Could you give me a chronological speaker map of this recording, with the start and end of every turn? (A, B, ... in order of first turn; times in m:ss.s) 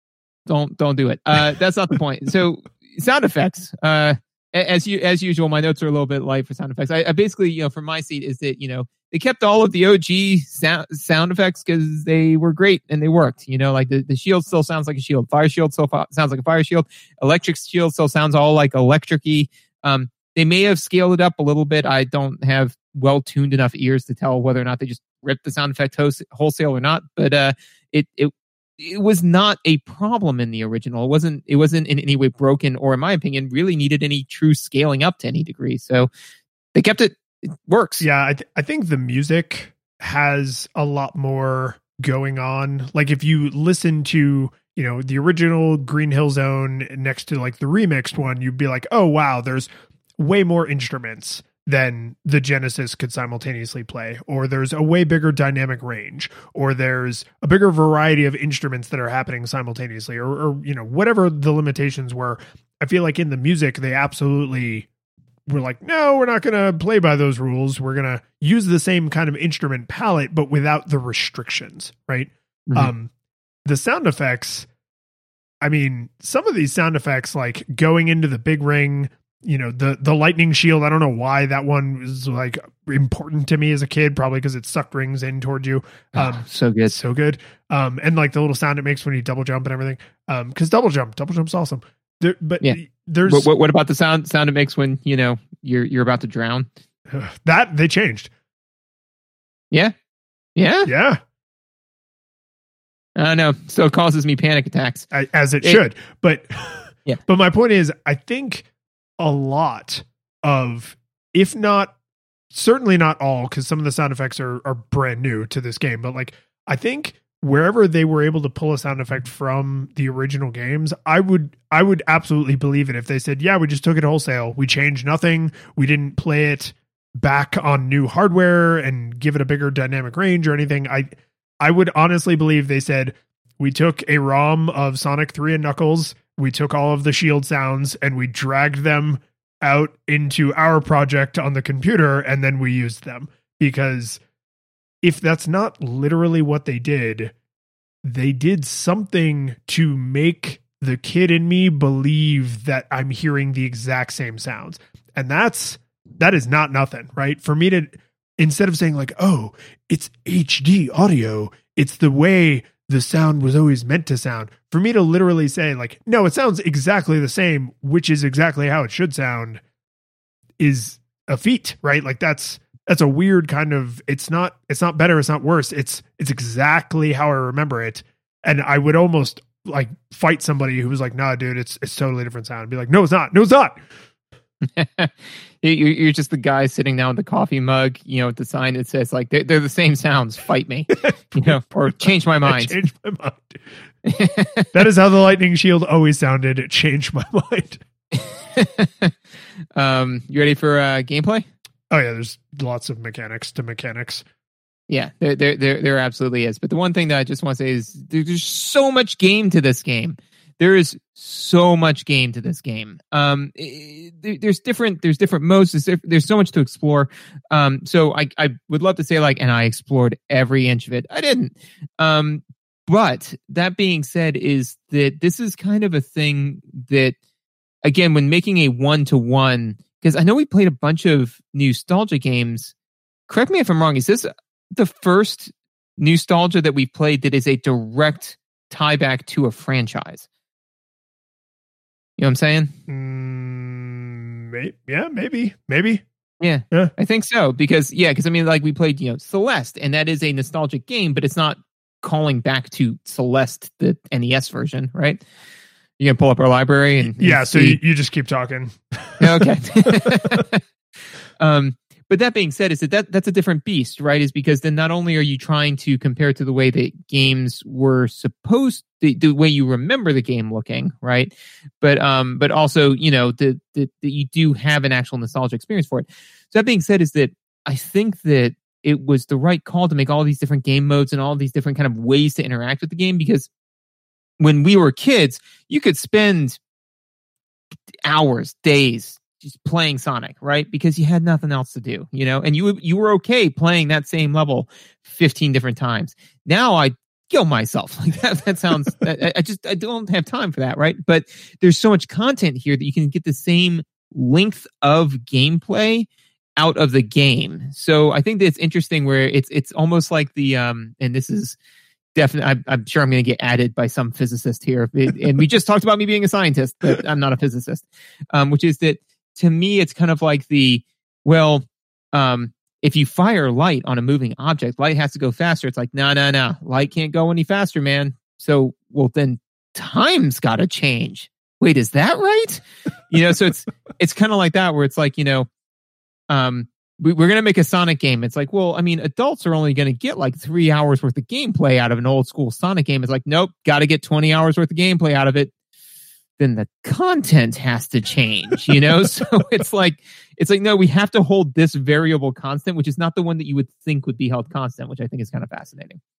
0:00.4-0:36.1 A
0:36.7-0:38.0 A
0:38.0-1:04.9 B
1:05.5-1:13.1 B
1:13.6-1:14.7 B
1:15.6-1:33.5 B
1:26.1-1:26.9 A
1:32.6-1:36.7 A
1:37.1-1:38.3 B
1:40.6-1:40.9 A
1:40.8-1:41.2 B
1:43.2-1:45.0 A
1:45.1-1:48.6 B
1:49.2-1:51.9 B
1:52.5-2:24.2 B
2:25.0-2:27.3 B
2:28.0-2:49.6 B
2:50.6-3:03.8 B
3:04.6-3:12.8 A
3:11.0-3:13.6 B
3:14.0-3:14.7 A
3:14.7-3:17.8 B
3:18.1-3:19.1 A
3:19.8-3:21.5 A
3:21.9-3:24.2 B
3:24.9-3:47.2 A
3:47.8-3:52.7 A
3:53.3-4:00.2 A
4:02.2-4:02.7 A
4:02.9-4:06.0 B
4:06.4-4:15.2 A
4:16.0-4:17.8 A
4:17.0-4:20.4 B
4:19.2-4:20.6 A
4:21.4-4:43.5 A
4:44.4-4:46.6 A
4:48.0-5:11.6 A
5:12.1-5:35.5 A
5:36.3-5:45.5 A
5:46.4-5:56.0 A